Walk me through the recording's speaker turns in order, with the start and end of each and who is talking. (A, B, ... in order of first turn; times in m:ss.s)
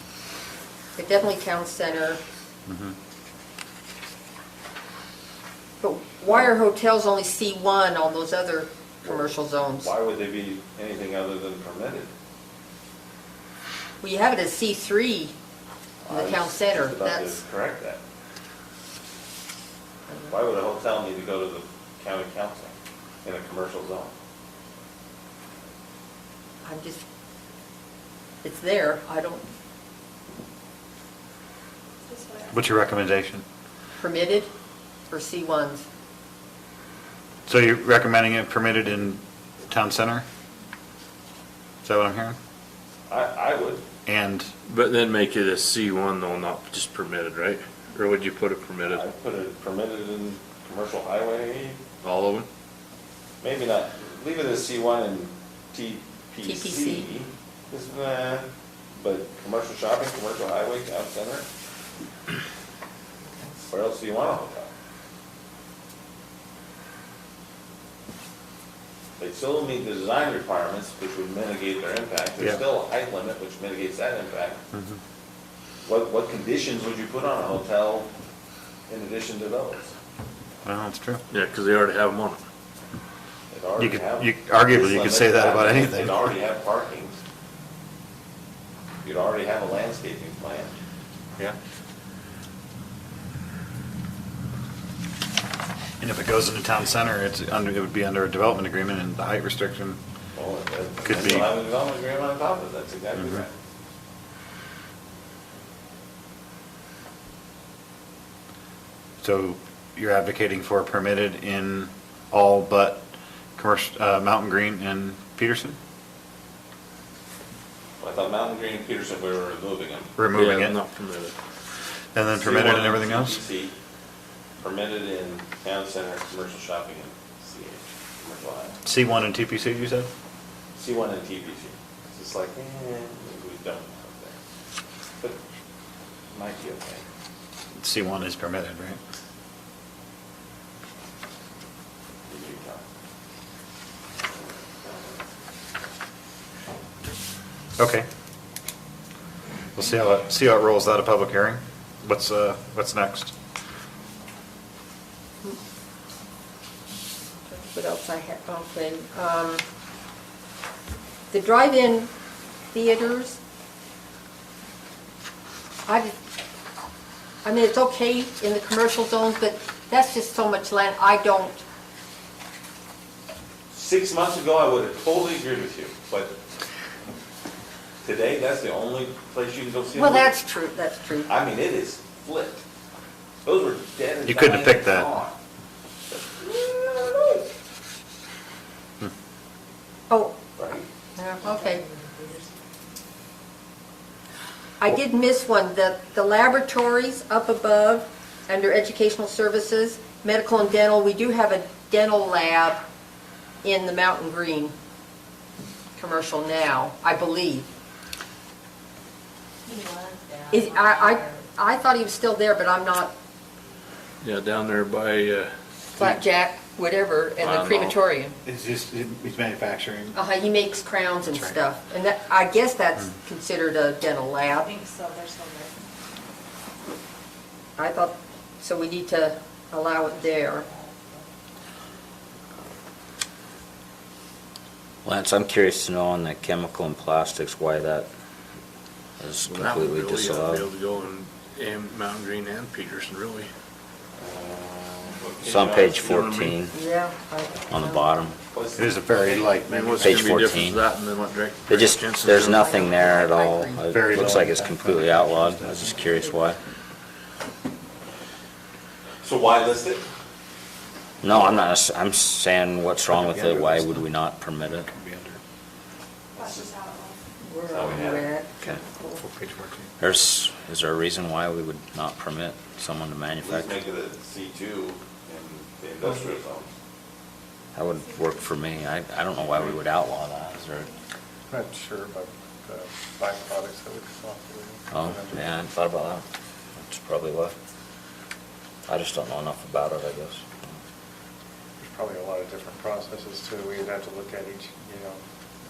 0:01.0-0:02.2 A
0:02.7-0:03.0 B
0:05.8-0:09.9 A
0:09.0-0:12.1 C
0:14.0-0:15.3 A
0:16.1-0:18.0 C
0:16.1-0:17.4 A
0:20.3-0:22.7 C
0:23.2-0:24.1 C
0:26.6-0:27.0 A
0:28.4-0:29.5 A
0:32.5-0:33.4 B
0:34.0-0:34.5 A
0:35.1-0:35.8 A
0:37.5-0:40.2 B
0:41.8-0:42.4 B
0:43.1-0:43.8 C
0:44.0-0:44.5 B
0:44.7-0:49.0 D
0:48.9-0:51.8 C
0:52.0-0:52.5 D
0:53.4-1:01.4 C
0:56.4-0:57.1 A
1:03.7-1:04.7 C
1:09.2-1:14.6 C
1:14.7-1:15.0 B
1:15.8-1:18.1 C
1:18.9-1:19.9 C
1:20.6-1:21.2 B
1:21.3-1:22.4 D
1:23.5-1:27.1 C
1:23.8-1:26.2 B
1:29.0-1:30.7 C
1:36.0-1:40.0 B
1:40.3-1:43.6 C
1:41.0-1:41.5 B
1:49.2-1:55.8 B
1:58.0-2:00.1 C
2:00.2-2:00.8 B
2:00.3-2:01.3 D
2:02.1-2:03.4 B
2:02.4-2:03.7 C
2:04.6-2:08.8 C
2:08.8-2:10.1 B
2:10.8-2:14.4 C
2:16.3-2:17.0 C
2:17.7-2:19.0 B
2:22.3-2:22.8 C
2:27.8-2:28.1 B
2:29.7-2:33.3 B
2:37.5-2:39.6 A
2:41.3-2:42.1 A
2:42.7-2:43.4 A
2:45.8-2:46.2 A
2:47.4-2:51.6 A
2:53.7-2:56.4 C
2:58.0-3:00.3 C
2:59.9-3:01.3 A
3:01.2-3:02.6 C
3:03.4-3:05.4 C
3:04.2-3:05.1 B
3:06.1-3:07.4 C
3:10.1-3:10.4 A
3:10.6-3:10.8 C
3:11.2-3:11.8 A
3:11.4-3:12.5 E
3:14.8-3:22.8 A
3:23.6-3:24.7 A
3:26.0-3:27.7 A
3:29.6-3:31.5 E
3:30.5-3:33.1 A
3:34.2-3:36.1 D
3:36.0-3:38.4 A
3:37.4-3:38.0 D
3:38.4-3:40.2 B
3:40.1-3:44.7 A
3:41.2-3:41.6 B
3:44.4-3:45.9 E
3:47.8-3:50.7 A
3:50.4-3:51.2 E
3:55.0-3:58.1 F
3:59.2-4:00.7 F
3:59.4-4:03.5 D
4:04.2-4:06.5 C
4:05.4-4:06.8 F
4:06.0-4:06.6 D
4:06.7-4:08.1 A
4:07.7-4:08.4 F
4:08.5-4:09.4 C
4:08.8-4:10.3 B
4:09.6-4:12.7 D
4:10.0-4:10.8 F
4:11.7-4:16.6 F
4:12.6-4:13.9 A
4:13.9-4:16.0 B
4:19.2-4:20.0 C
4:21.2-4:24.9 F
4:23.1-4:24.0 B
4:24.8-4:25.4 B
4:26.4-4:26.6 C
4:26.4-4:27.1 E
4:27.4-4:29.2 A
4:27.7-4:28.3 C
4:29.2-4:29.9 B
4:30.0-4:33.7 F
4:33.4-4:36.7 C
4:37.7-4:40.9 F
4:41.5-4:45.4 G
4:44.9-4:46.2 F
4:46.8-4:47.5 F
4:48.8-4:50.4 F
4:51.8-4:55.2 G